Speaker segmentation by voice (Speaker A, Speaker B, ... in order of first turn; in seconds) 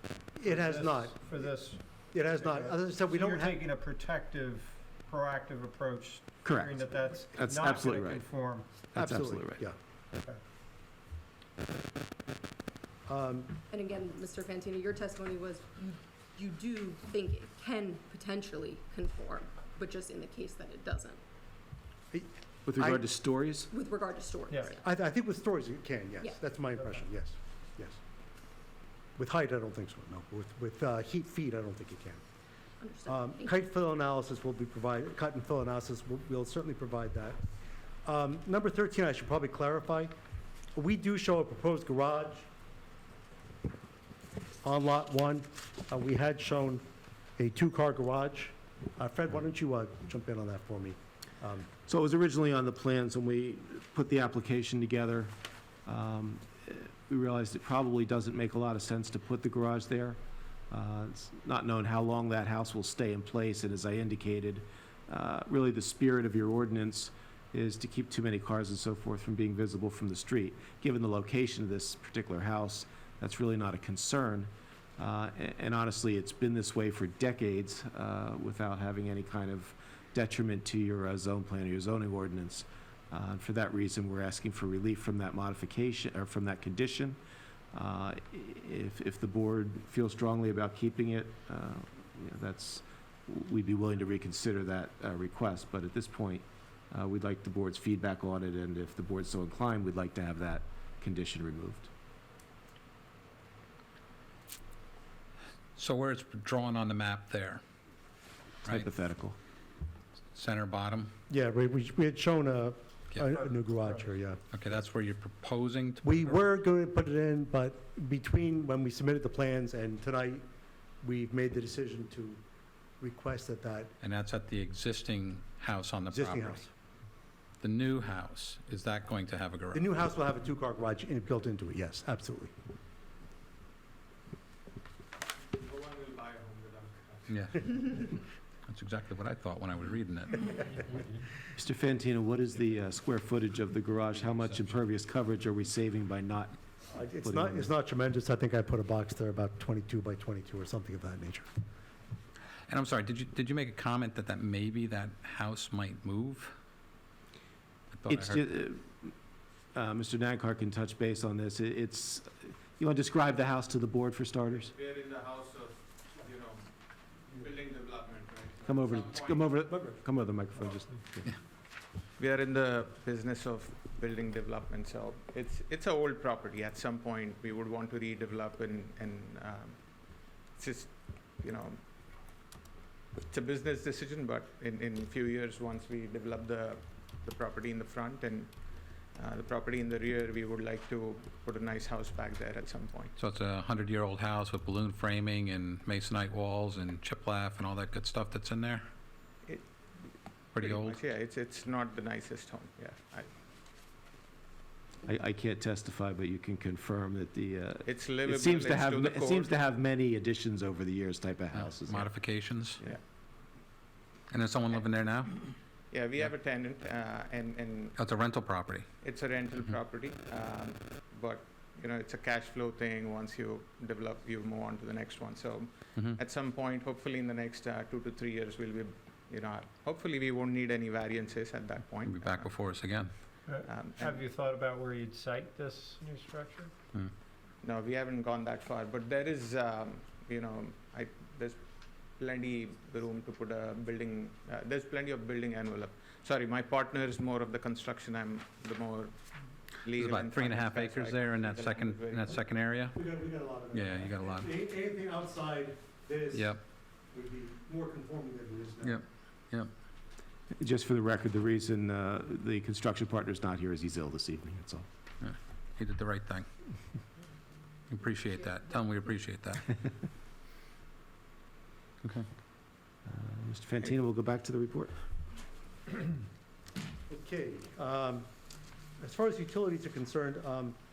Speaker A: 0.3-1.5, 2.1-3.6, 9.0-9.8, 13.1-13.5, 22.1-23.0, 24.8-28.0, 29.2-32.2, 33.1-37.4, 38.0-40.1, 40.7-42.5, 44.6-46.8, 47.4-51.7, 111.3-114.4, 116.0-120.5, 121.0-122.4, 123.0-123.9, 126.1-126.7, 129.7-132.5, 146.9-151.5, 169.7-170.0, 252.9-259.0, 277.1-278.3, 279.0-280.8
Speaker B: 0.4-8.7, 233.5-236.7
Speaker C: 6.4-8.3, 8.9-9.7, 22.6-23.7, 51.9-55.3, 55.9-87.2, 87.7-101.9, 108.7-109.4, 141.6-146.6, 147.2-147.7, 158.1-159.1, 159.7-164.7, 168.7-171.3, 205.1-212.1, 260.5-264.9, 273.1-274.9
Speaker D: 13.7-21.2, 23.7-24.9, 32.8-33.6
Speaker E: 105.8-107.6, 110.3-111.1, 114.5-116.4, 124.0-126.6, 127.6-129.9, 137.3-141.1, 144.3-144.7, 152.7-156.5, 157.9-158.4, 193.2-198.9, 200.5-201.0, 211.5-212.8, 214.3-215.5, 218.0-218.9, 232.1-233.1, 249.9-253.0, 253.7-254.5, 256.3-256.6, 258.8-259.7, 265.2-266.5, 267.9-269.8
Speaker F: 135.5-137.8, 164.6-169.5, 172.2-181.8, 183.3-193.1, 199.4-199.7, 200.6-203.3, 207.8-209.6, 215.9-218.0, 219.0-232.5, 233.4-234.2, 237.6-252.4